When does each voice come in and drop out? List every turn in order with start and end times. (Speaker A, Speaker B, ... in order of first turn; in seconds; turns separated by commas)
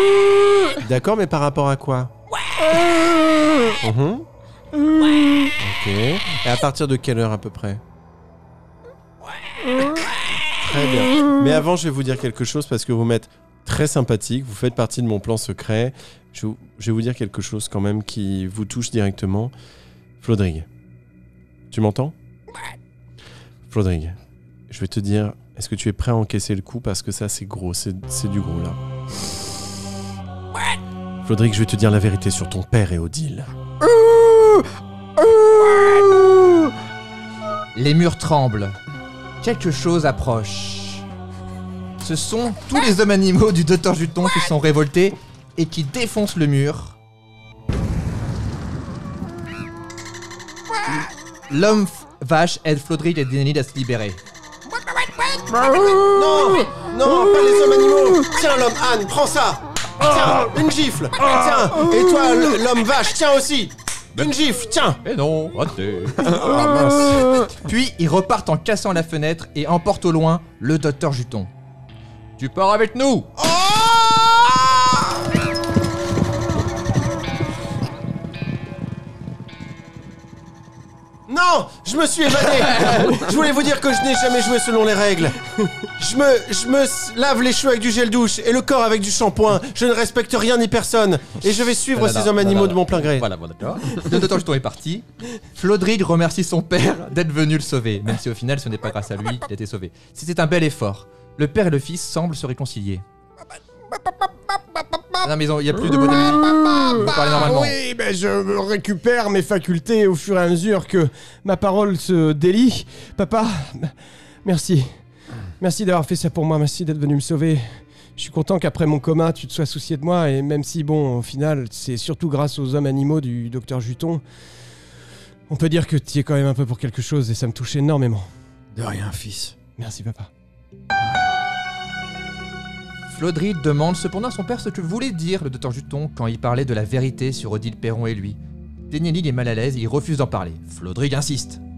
Speaker A: 0.8-2.1, Speaker A: 3.8-4.2, Speaker A: 5.6-7.8, Speaker A: 10.4-19.5, Speaker A: 20.2-20.7, Speaker A: 21.7-22.1, Speaker A: 23.7-24.2, Speaker A: 24.7-29.3, Speaker A: 31.2-33.5, Speaker B: 33.8-36.7, Speaker C: 37.7-38.8, Speaker C: 39.4-41.1, Speaker C: 42.0-47.0, Speaker C: 51.5-54.2, Speaker A: 55.9-65.0, Speaker C: 65.0-66.4, Speaker A: 66.2-67.5, Speaker C: 67.6-71.5, Speaker C: 72.4-73.3, Speaker A: 73.4-75.1, Speaker A: 81.3-85.4, Speaker C: 82.8-83.2, Speaker A: 86.0-93.3, Speaker C: 91.9-103.0, Speaker C: 105.2-107.8, Speaker D: 105.8-113.9, Speaker D: 114.4-114.9, Speaker D: 115.6-124.2, Speaker D: 125.5-128.3, Speaker B: 128.7-129.5, Speaker D: 129.8-130.3, Speaker C: 133.1-138.4, Speaker C: 138.9-141.6